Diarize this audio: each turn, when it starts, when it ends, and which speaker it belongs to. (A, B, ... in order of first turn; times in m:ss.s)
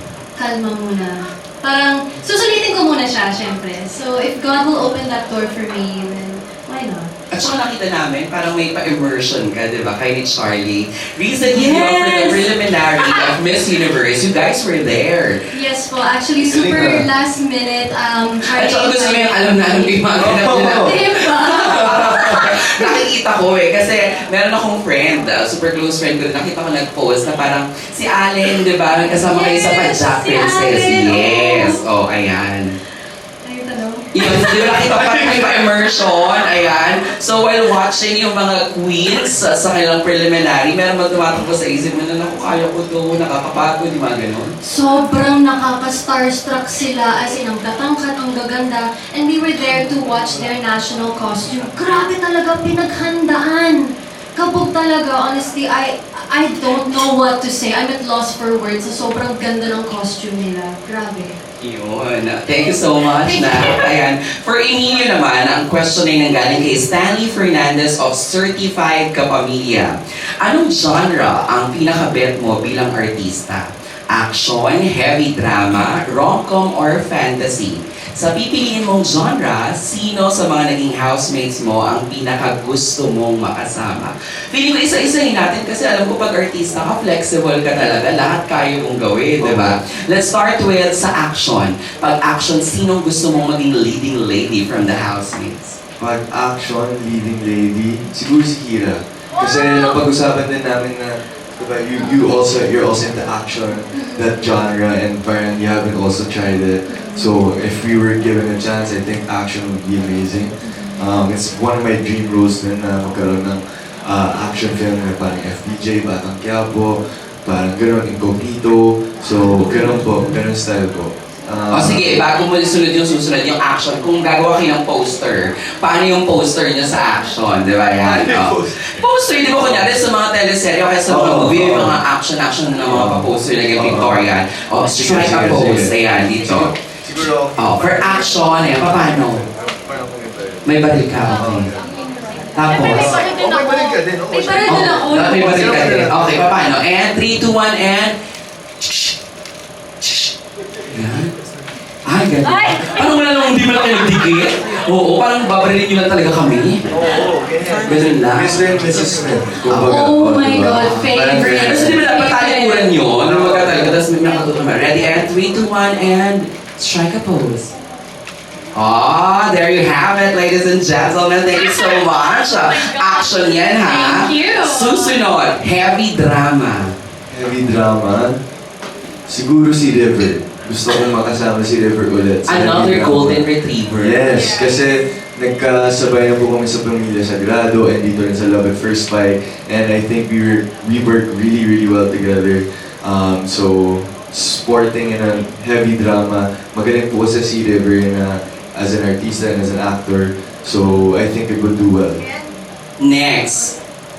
0:00.4-0:07.1 A
0:07.3-0:15.4 B
0:11.5-0:13.2 A
0:15.5-0:19.4 A
0:16.4-0:17.0 C
0:18.4-0:32.7 B
0:20.2-0:21.0 C
0:20.6-0:22.0 A
0:21.7-0:22.4 C
0:29.0-0:31.8 A
0:33.4-0:34.7 A
0:34.1-0:44.5 B
0:34.5-0:35.6 C
0:44.6-1:01.4 A
1:01.6-1:35.8 B
1:02.6-1:03.9 A
1:29.4-1:29.8 C
1:36.0-2:02.2 C
1:39.3-1:40.0 A
1:43.9-1:44.2 A
1:47.0-1:47.2 A
1:59.3-2:00.4 B
2:01.7-2:16.7 B
2:08.0-2:09.9 C
2:11.1-2:12.0 C
2:12.8-2:14.3 C
2:15.0-2:18.8 C
2:17.6-2:19.4 B
2:19.6-2:20.6 C
2:20.6-2:21.7 B
2:21.3-2:21.8 C
2:22.5-2:23.1 B
2:22.7-2:25.9 A
2:22.8-2:26.5 C
2:24.6-2:28.1 B
2:28.8-2:29.1 B
2:30.0-2:30.3 B
2:30.9-2:31.3 B
2:32.1-2:36.8 B
2:32.4-2:33.1 A
2:36.9-2:42.0 C
2:37.8-2:39.1 B
2:39.6-2:39.9 B
2:39.8-2:43.0 A
2:41.3-2:47.7 B
2:43.1-2:44.0 C
2:48.7-2:56.9 B
2:52.7-2:55.2 A
2:57.3-2:58.4 C
2:59.3-3:22.2 C
3:02.5-3:04.2 B
3:04.2-3:04.7 A
3:23.0-3:23.8 B